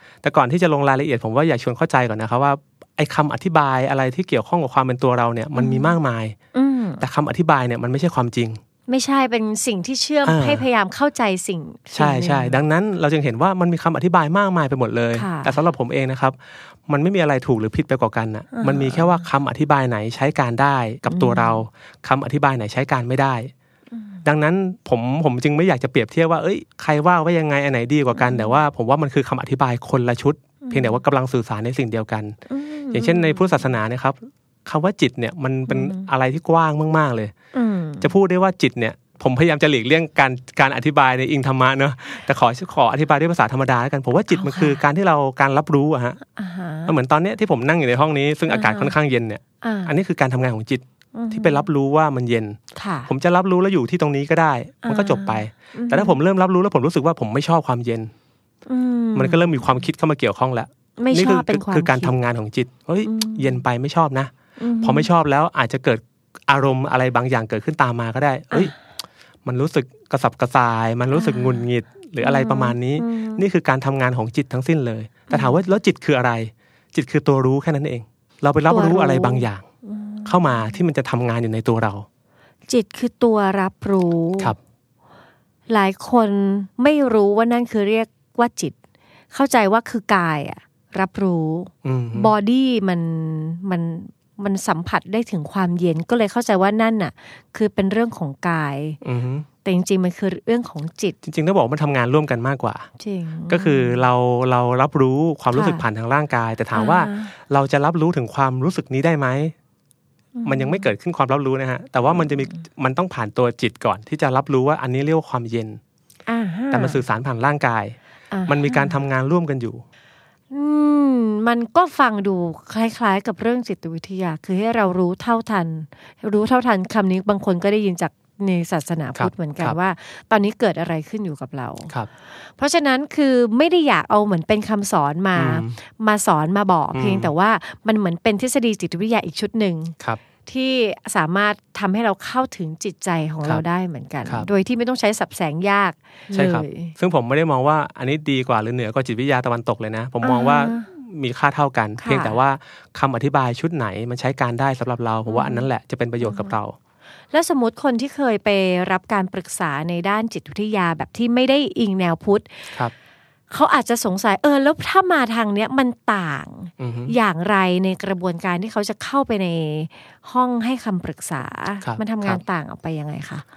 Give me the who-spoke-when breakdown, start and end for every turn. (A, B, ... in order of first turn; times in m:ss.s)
0:00.2-0:06.4 A
0:05.6-0:06.0 B
0:06.5-0:07.0 B
0:07.0-0:08.6 A
0:08.9-0:12.6 B
0:10.2-0:10.7 A
0:11.9-0:16.4 A
0:15.2-0:15.6 B
0:16.9-0:23.5 A
0:18.5-0:19.2 B
0:21.1-0:21.6 B
0:23.9-0:24.2 B
0:24.2-0:32.4 A
0:28.2-0:28.6 B
0:30.6-0:31.0 B
0:32.5-0:33.7 B
0:32.9-0:37.3 A
0:35.7-0:36.1 B
0:37.5-0:38.1 B
0:38.0-0:46.2 A
0:44.3-0:44.8 B
0:46.4-0:46.9 B
0:46.9-0:58.1 A
0:48.5-0:48.9 B
0:49.6-0:49.9 B
0:51.2-0:51.6 B
0:52.8-0:53.1 B
0:54.8-0:56.2 B
0:58.7-0:59.7 B
0:59.2-1:08.7 A
1:01.0-1:02.2 B
1:03.0-1:03.6 B
1:04.6-1:05.1 B
1:09.4-1:19.6 A
1:11.1-1:11.7 B
1:12.2-1:13.4 B
1:15.3-1:15.6 B
1:18.7-1:20.8 B
1:20.3-1:22.1 A
1:22.7-1:24.6 B
1:25.7-1:28.8 B
1:29.3-1:39.0 B
1:31.8-1:32.3 A
1:39.0-1:39.5 A
1:39.6-1:41.2 B
1:41.2-1:42.9 A
1:43.0-1:44.1 B
1:43.5-1:49.6 A
1:45.5-1:45.8 B
1:46.7-1:47.3 B
1:50.4-1:50.9 B
1:50.4-1:55.8 A
1:56.3-1:57.0 B
1:56.7-1:58.0 A
1:58.3-1:59.0 B
1:58.5-1:59.8 A
2:00.5-2:11.9 B
2:09.2-2:09.8 A
2:12.6-2:20.0 B
2:15.4-2:15.7 A
2:16.9-2:17.3 A
2:20.5-2:26.9 B
2:26.3-2:36.8 A
2:30.2-2:30.9 B
2:32.0-2:32.4 B
2:35.3-2:35.7 B
2:36.2-2:36.6 B
2:37.3-2:42.7 B
2:43.5-2:53.4 B
2:46.8-2:47.2 A
2:51.8-2:52.4 A